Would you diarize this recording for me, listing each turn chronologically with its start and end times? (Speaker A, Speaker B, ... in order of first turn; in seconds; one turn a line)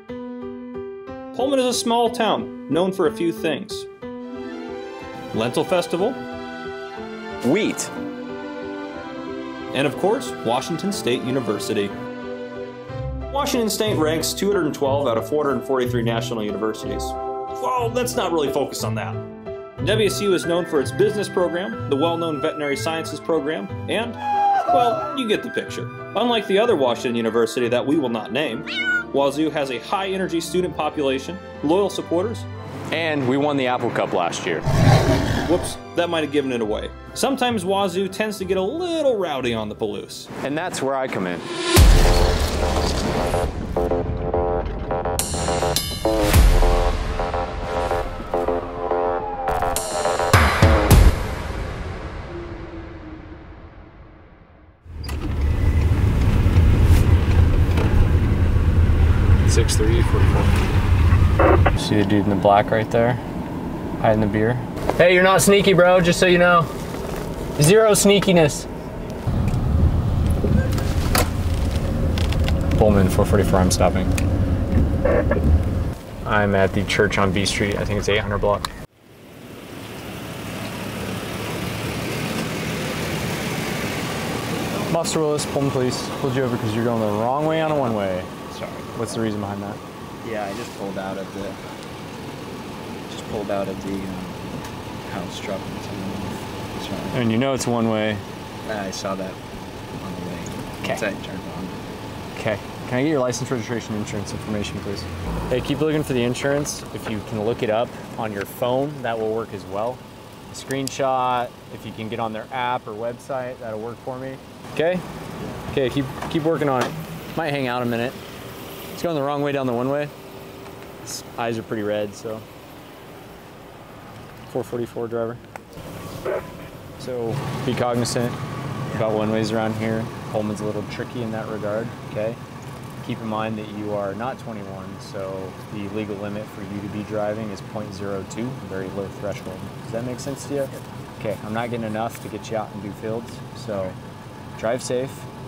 Speaker A: 1.3-3.9
Speaker A: 5.3-6.2
Speaker B: 7.4-7.9
Speaker A: 9.7-11.9
Speaker A: 13.3-19.2
Speaker A: 19.8-32.5
Speaker B: 32.9-34.6
Speaker A: 35.4-40.3
Speaker B: 40.4-41.5
Speaker B: 59.4-60.6
Speaker B: 61.8-63.2
Speaker B: 64.0-66.7
Speaker B: 67.5-68.7
Speaker B: 72.7-74.1
Speaker B: 76.2-78.7
Speaker B: 84.9-88.3
Speaker C: 87.5-87.8
Speaker C: 88.5-89.1
Speaker B: 88.9-89.8
Speaker C: 90.2-91.5
Speaker C: 93.1-94.4
Speaker C: 95.1-97.2
Speaker B: 97.1-98.2
Speaker C: 98.7-99.4
Speaker C: 100.0-101.8
Speaker B: 102.3-115.0
Speaker B: 115.7-118.2
Speaker B: 118.9-120.1
Speaker B: 121.0-122.4
Speaker B: 124.5-125.4
Speaker B: 127.0-128.4
Speaker B: 128.9-132.4
Speaker B: 133.0-143.9
Speaker B: 144.6-145.3